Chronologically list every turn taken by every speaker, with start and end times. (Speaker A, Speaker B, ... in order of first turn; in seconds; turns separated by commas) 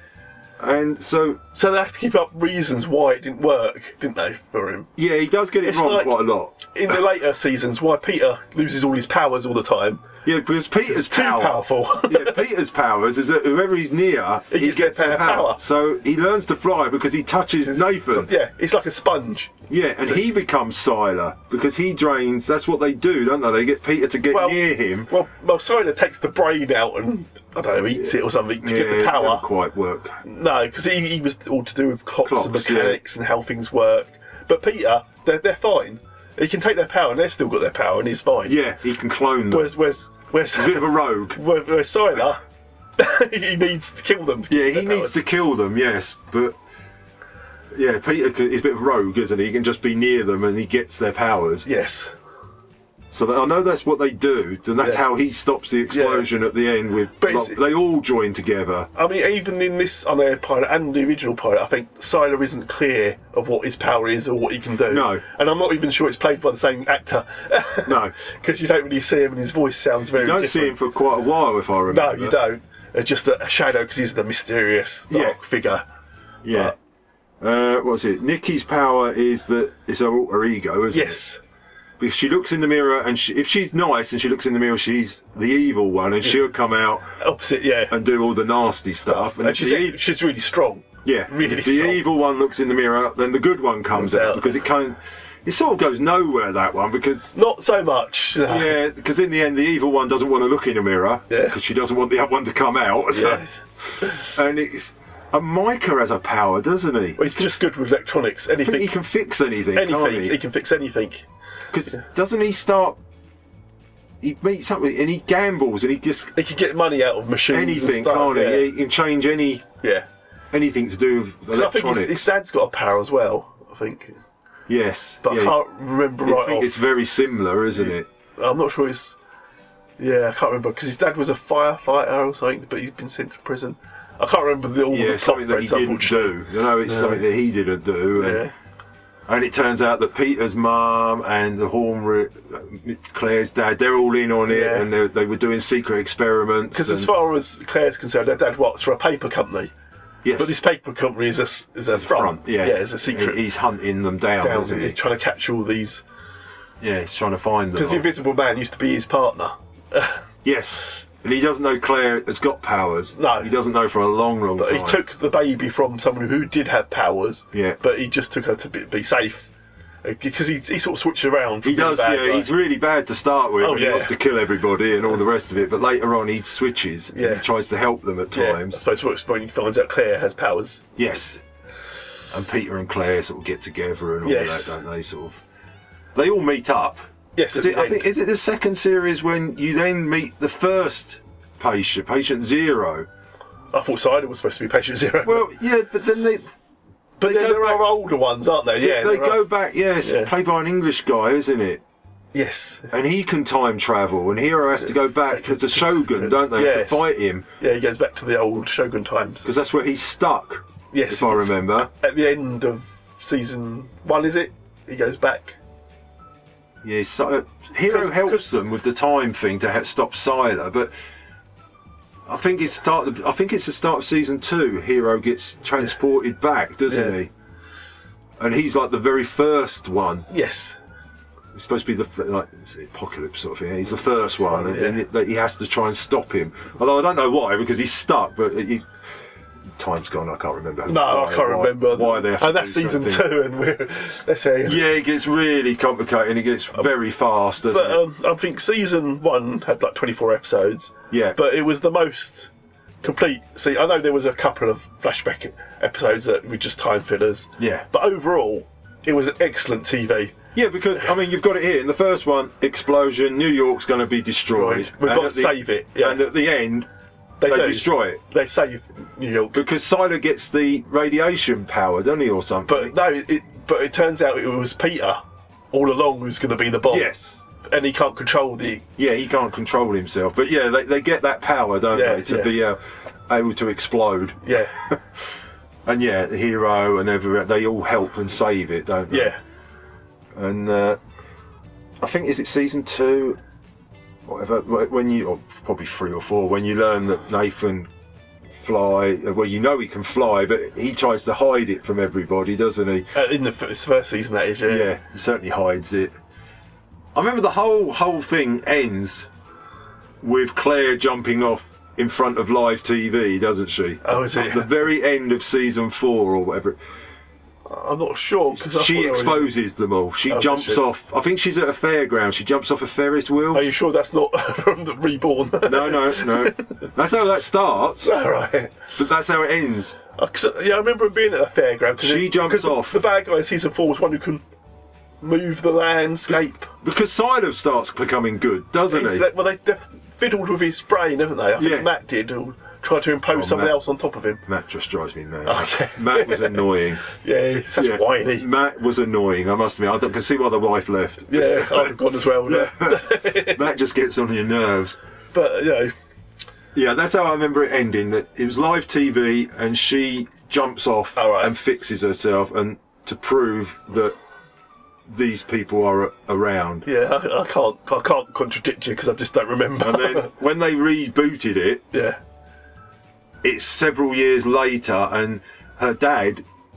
Speaker A: 0.6-1.4, Speaker B: 1.5-4.9, Speaker A: 5.0-6.7, Speaker B: 5.7-10.0, Speaker A: 10.2-18.3, Speaker B: 10.9-12.4, Speaker B: 14.5-15.6, Speaker B: 17.7-20.2, Speaker A: 19.7-25.1, Speaker B: 24.3-29.4, Speaker A: 28.0-30.1, Speaker B: 30.2-38.6, Speaker A: 32.2-33.0, Speaker A: 38.5-39.7, Speaker B: 39.5-42.4, Speaker A: 40.6-41.4, Speaker B: 43.0-45.1, Speaker A: 44.5-46.5, Speaker A: 47.7-51.7, Speaker B: 51.7-52.1, Speaker A: 53.1-58.9, Speaker B: 54.8-55.0, Speaker B: 55.9-56.3, Speaker B: 57.2-57.6, Speaker B: 59.0-70.8, Speaker A: 64.9-65.2, Speaker A: 67.9-68.1, Speaker A: 70.2-72.4, Speaker B: 71.9-75.8, Speaker A: 75.1-75.4, Speaker A: 76.5-76.7, Speaker A: 77.4-81.2, Speaker B: 80.9-81.4, Speaker A: 82.0-87.1, Speaker B: 87.2-87.9, Speaker A: 87.9-90.0, Speaker B: 89.1-92.0, Speaker A: 91.0-97.3, Speaker B: 93.9-94.5, Speaker B: 97.3-98.8, Speaker A: 98.5-103.4, Speaker B: 101.3-101.6, Speaker B: 103.1-103.5, Speaker A: 104.3-107.5, Speaker B: 107.2-108.9, Speaker A: 108.6-110.4, Speaker B: 109.8-111.2, Speaker A: 111.7-113.0, Speaker A: 114.2-116.3, Speaker B: 116.4-118.7, Speaker A: 117.5-119.6, Speaker A: 120.5-122.3, Speaker B: 121.5-124.2, Speaker A: 124.7-125.6, Speaker B: 125.2-126.7, Speaker A: 126.2-128.1, Speaker B: 127.8-129.2, Speaker B: 130.0-136.3, Speaker A: 134.9-138.4, Speaker B: 136.8-137.2, Speaker B: 138.2-138.5, Speaker A: 139.3-147.1, Speaker B: 144.5-144.9, Speaker B: 146.7-149.7, Speaker A: 150.2-150.6, Speaker B: 150.4-153.4, Speaker A: 151.9-155.0, Speaker B: 154.4-156.0, Speaker A: 156.8-158.1, Speaker B: 157.8-160.2, Speaker A: 160.4-165.0, Speaker B: 163.2-163.5, Speaker B: 164.6-169.5, Speaker A: 167.5-167.8, Speaker B: 170.1-172.5, Speaker A: 171.6-178.8, Speaker B: 173.6-174.1, Speaker B: 177.1-177.4, Speaker B: 178.3-180.8, Speaker A: 181.0-181.4, Speaker A: 182.3-185.4, Speaker B: 184.2-184.8, Speaker A: 186.2-187.0, Speaker B: 187.4-188.0, Speaker A: 187.5-193.1, Speaker B: 193.7-195.5, Speaker A: 195.2-196.5, Speaker A: 197.2-197.9, Speaker B: 197.2-199.5, Speaker A: 198.8-201.8, Speaker B: 200.0-200.3, Speaker B: 202.3-202.9, Speaker A: 202.9-207.5, Speaker B: 204.8-207.1, Speaker B: 207.6-209.5, Speaker A: 209.4-211.9, Speaker B: 210.9-215.6, Speaker A: 216.8-220.9, Speaker B: 217.9-218.5, Speaker A: 222.3-227.3, Speaker B: 226.9-227.2, Speaker A: 228.4-230.3, Speaker B: 230.3-230.8, Speaker A: 231.5-238.8, Speaker B: 234.4-235.0, Speaker A: 239.8-243.3, Speaker B: 240.9-244.8, Speaker A: 244.7-248.0, Speaker B: 247.7-252.5, Speaker A: 251.1-251.4, Speaker B: 253.0-260.4, Speaker A: 257.6-257.9, Speaker A: 260.6-266.9, Speaker B: 264.6-266.2, Speaker B: 267.4-269.6, Speaker A: 267.4-268.2, Speaker A: 269.5-272.9, Speaker B: 272.7-275.2, Speaker B: 275.7-277.1, Speaker A: 276.9-277.4, Speaker B: 277.6-278.9, Speaker A: 279.0-285.0, Speaker B: 281.9-282.5, Speaker B: 284.5-284.7, Speaker A: 285.9-289.4, Speaker B: 289.1-289.4, Speaker A: 290.4-291.0, Speaker A: 292.0-293.4, Speaker A: 294.3-297.9, Speaker A: 298.6-303.1, Speaker B: 303.1-304.9, Speaker A: 304.7-306.1, Speaker A: 307.1-309.3, Speaker A: 310.2-316.8, Speaker B: 314.0-314.9, Speaker B: 317.7-319.5, Speaker A: 318.6-323.7, Speaker B: 320.3-320.8, Speaker B: 323.5-326.7, Speaker A: 325.7-328.1, Speaker B: 328.0-328.7, Speaker A: 329.0-330.0, Speaker B: 330.2-334.4, Speaker A: 332.0-333.0, Speaker B: 335.2-336.7, Speaker A: 336.3-339.3, Speaker B: 338.9-344.4, Speaker A: 341.6-341.9, Speaker A: 343.3-343.8, Speaker A: 344.4-347.1, Speaker B: 345.5-348.5, Speaker A: 347.8-355.0, Speaker B: 351.3-353.7, Speaker B: 355.3-355.9, Speaker A: 356.8-364.1, Speaker B: 361.2-361.5, Speaker A: 365.1-366.9, Speaker B: 366.9-370.3, Speaker A: 369.8-371.8, Speaker B: 371.9-372.2, Speaker A: 373.4-376.4